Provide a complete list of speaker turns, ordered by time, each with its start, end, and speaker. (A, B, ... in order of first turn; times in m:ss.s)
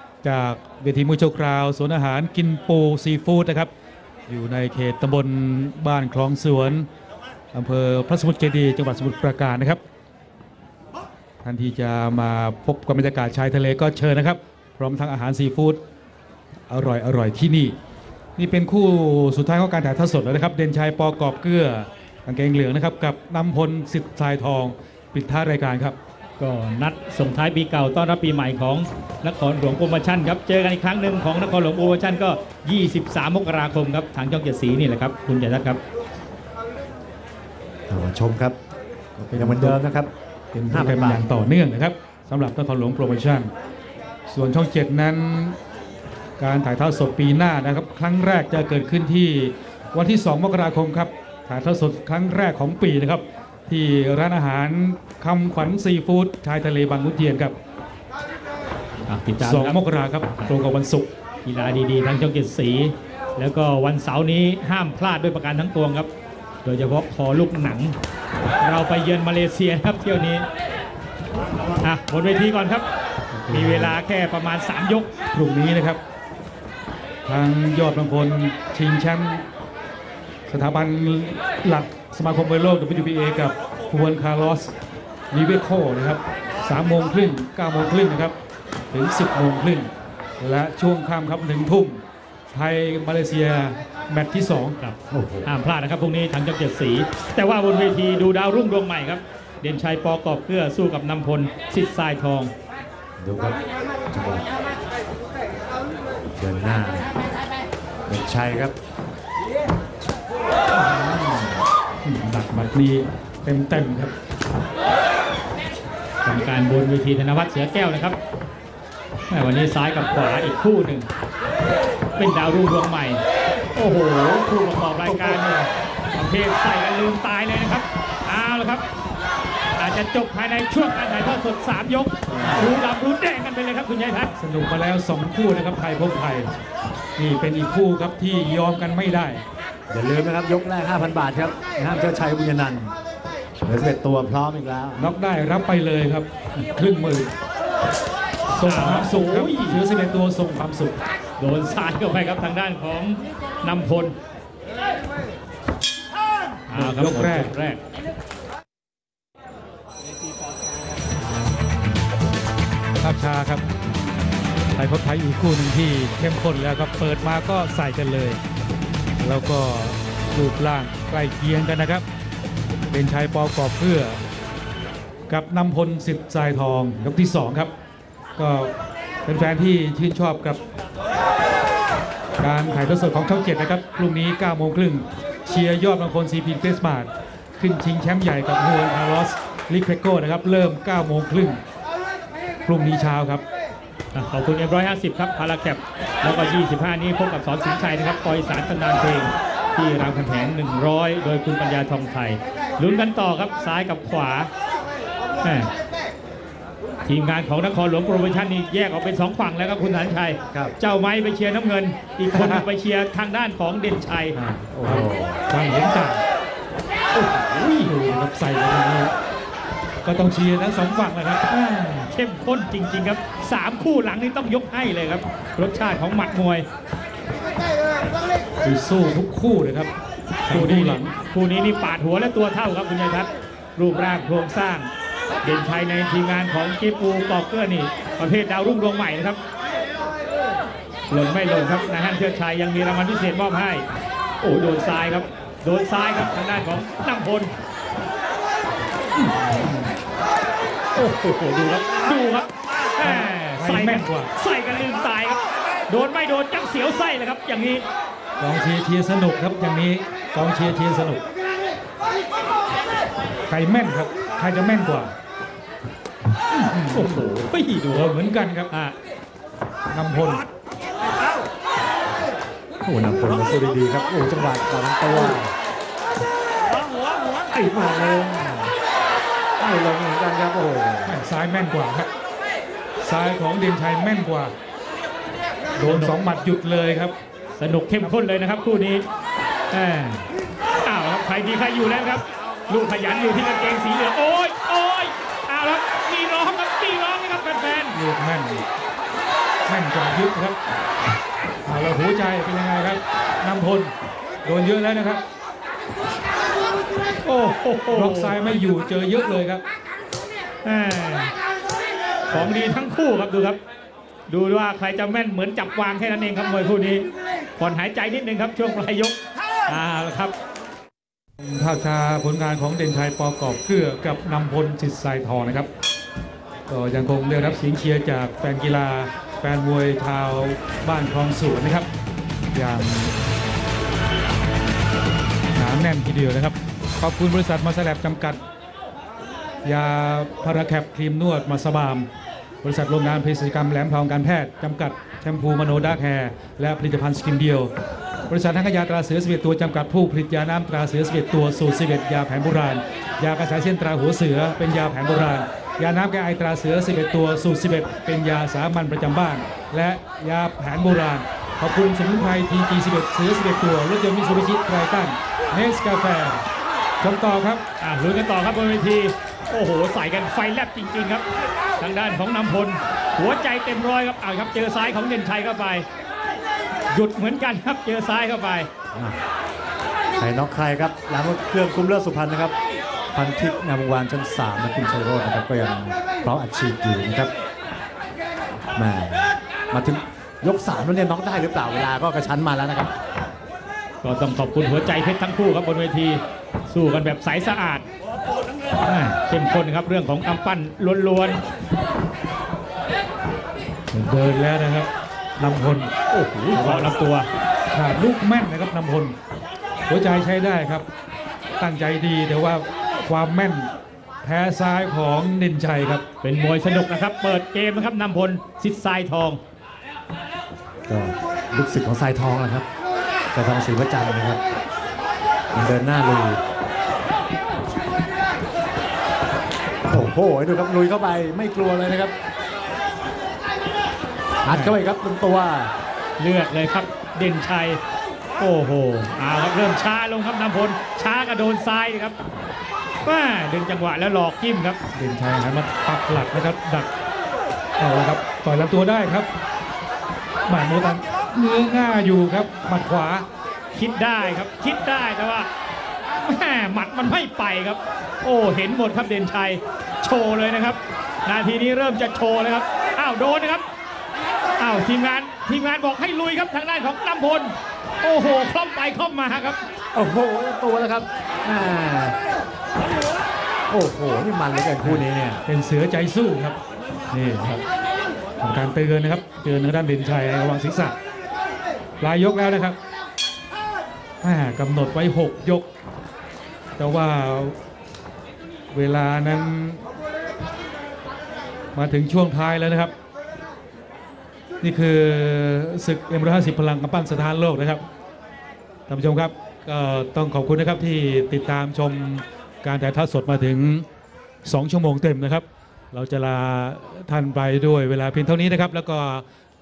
0:00.2-0:03.7 A
0:04.3-0:06.8 A
0:07.5-0:09.8 A
0:11.4-0:15.8 A
0:16.7-0:17.7 A
0:18.4-0:26.0 A
0:26.4-0:35.8 B
0:37.9-0:38.6 C
0:39.2-0:39.8 A
0:39.3-0:40.1 C
0:40.5-0:43.5 A
0:40.7-0:41.2 C
0:44.3-0:45.6 A
0:46.4-0:57.5 A
0:59.0-0:59.8 B
0:59.4-1:01.1 A
1:01.4-1:06.1 B
1:06.6-1:08.0 B
1:08.6-1:10.4 B
1:11.8-1:12.8 B
1:13.3-1:14.0 A
1:13.5-1:15.1 B
1:15.3-1:16.0 A
1:17.2-1:19.4 A
1:20.5-1:24.7 A
1:25.3-1:28.3 A
1:28.9-1:29.9 A
1:30.4-1:34.7 A
1:34.8-1:42.5 B
1:35.1-1:35.5 C
1:43.2-1:43.6 C
1:44.1-1:44.5 C
1:46.4-1:47.1 C
1:48.1-1:48.7 C
1:50.8-1:51.2 B
1:52.0-1:54.1 A
1:56.2-1:58.2 B
1:59.3-2:01.1 B
2:02.2-2:03.2 B
2:03.7-2:05.5 B
2:05.0-2:05.7 A
2:06.1-2:08.8 B
2:09.8-2:14.3 B
2:12.3-2:12.7 A
2:14.4-2:16.6 A
2:17.2-2:19.4 A
2:19.9-2:23.0 C
2:23.6-2:25.1 C
2:25.0-2:27.3 A
2:28.5-2:31.0 A
2:28.6-2:29.8 B
2:31.4-2:34.1 B
2:36.7-2:37.8 B
2:36.7-2:37.5 A
2:43.0-2:43.6 A
2:44.7-2:48.4 A
2:49.2-2:52.0 A
2:52.9-2:54.2 A
2:55.3-2:57.7 A
2:58.4-2:58.7 A
2:59.2-3:00.6 A
3:02.4-3:11.6 A
3:12.6-3:13.4 A
3:14.1-3:24.5 B
3:25.4-3:25.7 B
3:27.0-3:34.4 B
3:32.3-3:32.6 A
3:34.3-3:36.2 A
3:34.7-3:35.4 C
3:37.1-3:37.9 B
3:37.8-3:39.1 A
3:40.0-3:41.4 A
3:41.5-3:46.6 B
3:48.6-3:49.9 A
3:50.5-3:51.1 A
3:50.5-3:54.9 B
3:55.4-3:59.4 B
4:01.1-4:03.8 B
4:04.4-4:07.5 B
4:09.4-4:09.9 A
4:10.9-4:17.8 B
4:13.0-4:14.3 A
4:18.4-4:21.2 A
4:23.5-4:25.1 A
4:26.5-4:27.2 A
4:26.9-4:28.2 B
4:27.9-4:28.7 A
4:28.7-4:29.0 B
4:29.9-4:30.4 A
4:32.8-4:35.5 C
4:37.5-4:38.7 C
4:39.6-4:41.2 C
4:41.0-4:42.1 A
4:43.0-4:44.5 A
4:45.8-4:47.1 A
4:45.8-4:46.1 B
4:47.5-4:49.0 B
4:49.7-4:50.3 B
4:50.8-4:58.0 B
4:57.9-4:58.6 A
4:59.7-5:00.6 A
5:01.6-5:03.9 A
5:04.4-5:05.2 A
5:07.2-5:08.4 B
5:07.9-5:09.6 A
5:10.6-5:11.3 B
5:12.3-5:13.6 B
5:14.3-5:20.3 B
5:21.4-5:25.7 A
5:26.7-5:31.9 A
5:32.5-5:33.2 A
5:35.5-5:38.4 A
5:39.6-5:42.1 A
5:42.6-5:47.7 A
5:48.3-6:06.4 A
6:07.0-6:07.6 A
6:07.8-6:11.2 B
6:11.8-6:15.8 B
6:16.9-6:18.7 B
6:18.9-6:19.2 C
6:20.2-6:22.5 C
6:23.1-6:27.3 C
6:28.7-6:32.9 C
6:34.0-6:37.8 B
6:38.8-6:41.4 B
6:43.9-6:45.9 A
6:46.1-6:47.3 B
6:46.5-6:46.9 A
6:47.7-6:49.2 A
6:49.9-6:50.8 A
6:51.6-6:53.7 A
6:54.2-6:56.0 A
6:56.2-6:59.4 B
7:00.9-7:02.7 C
7:03.3-7:04.4 C
7:05.5-7:06.4 C
7:09.9-7:12.1 C
7:14.4-7:15.7 C
7:16.2-7:17.8 B
7:18.4-7:22.1 B
7:23.0-7:24.8 B
7:24.9-7:26.9 A
7:27.8-7:29.3 A
7:30.4-7:33.2 A
7:33.7-7:35.5 B
7:36.1-7:43.6 B
7:44.6-7:49.6 B
7:49.9-7:52.2 C
7:53.7-7:55.4 C
7:54.8-7:56.6 A
7:57.1-7:57.6 A
7:58.4-8:00.9 A
8:02.0-8:02.8 A
8:04.2-8:05.7 A
8:06.8-8:07.6 A
8:08.7-8:09.8 A
8:11.7-8:12.9 A
8:14.6-8:17.8 A
8:18.9-8:23.8 A
8:24.4-8:29.2 A